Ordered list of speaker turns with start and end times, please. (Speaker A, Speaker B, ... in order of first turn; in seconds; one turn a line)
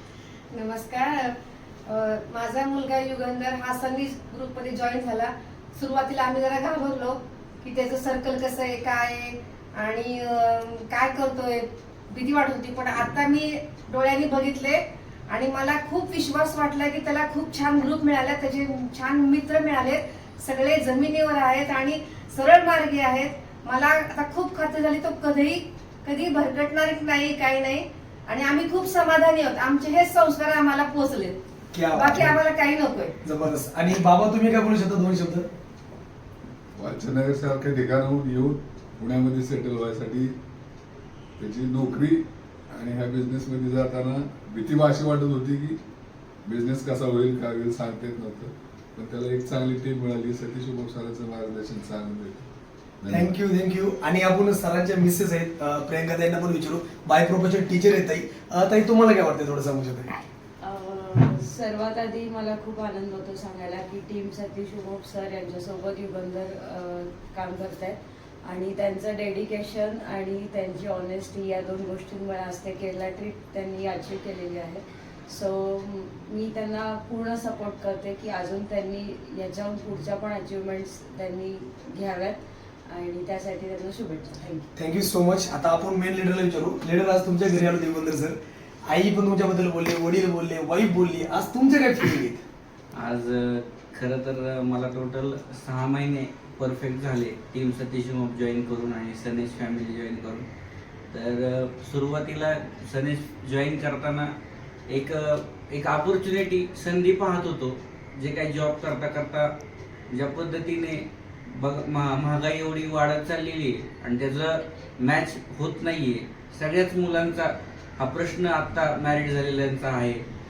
Speaker A: 0.5-1.3
Speaker A: 1.9-31.4
Speaker B: 31.7-32.4
Speaker A: 31.9-33.1
Speaker B: 33.2-35.5
Speaker C: 36.8-40.3
Speaker C: 41.4-45.8
Speaker C: 46.5-52.5
Speaker C: 53.0-53.3
Speaker B: 53.1-60.1
Speaker D: 60.6-84.7
Speaker B: 84.8-92.4
Speaker E: 92.9-100.5
Speaker E: 101.1-104.3
Speaker E: 104.9-109.5
Speaker E: 110.1-120.2